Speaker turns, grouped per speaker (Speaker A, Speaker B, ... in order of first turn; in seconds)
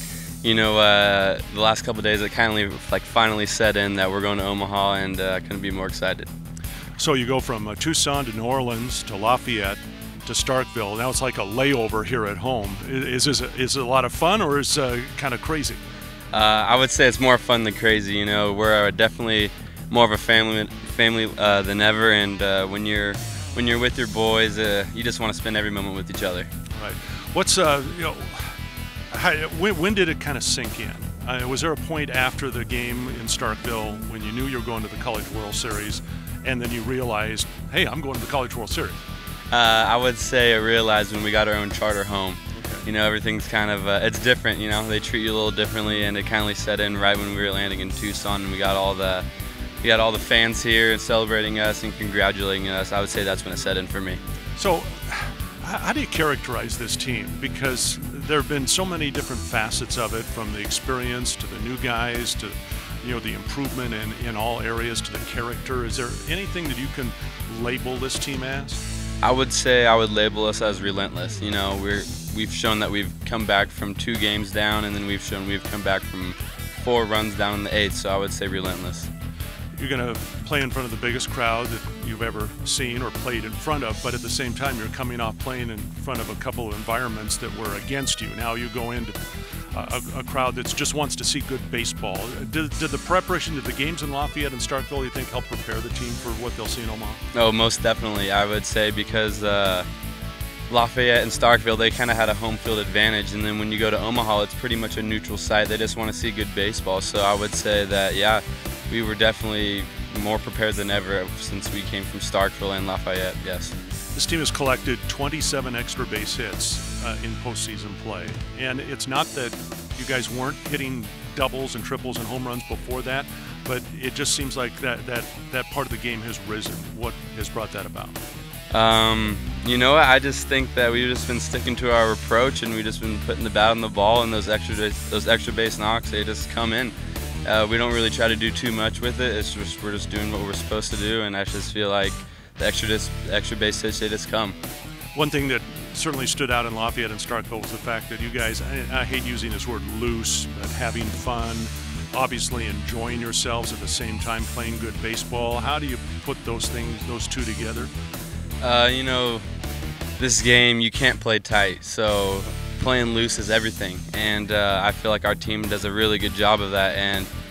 Speaker A: 0.4-6.3, 16.3-26.5, 39.5-49.2, 49.8-54.2, 69.2-79.1, 97.3-99.9, 100.7-113.7, 128.7-136.9, 137.4-144.6, 158.6-159.4, 160.2-167.3
Speaker B: 7.0-15.8, 26.8-28.6, 29.1-39.0, 42.5-42.8, 54.6-68.8, 79.8-89.2, 89.7-97.2, 114.1-128.2, 145.1-157.9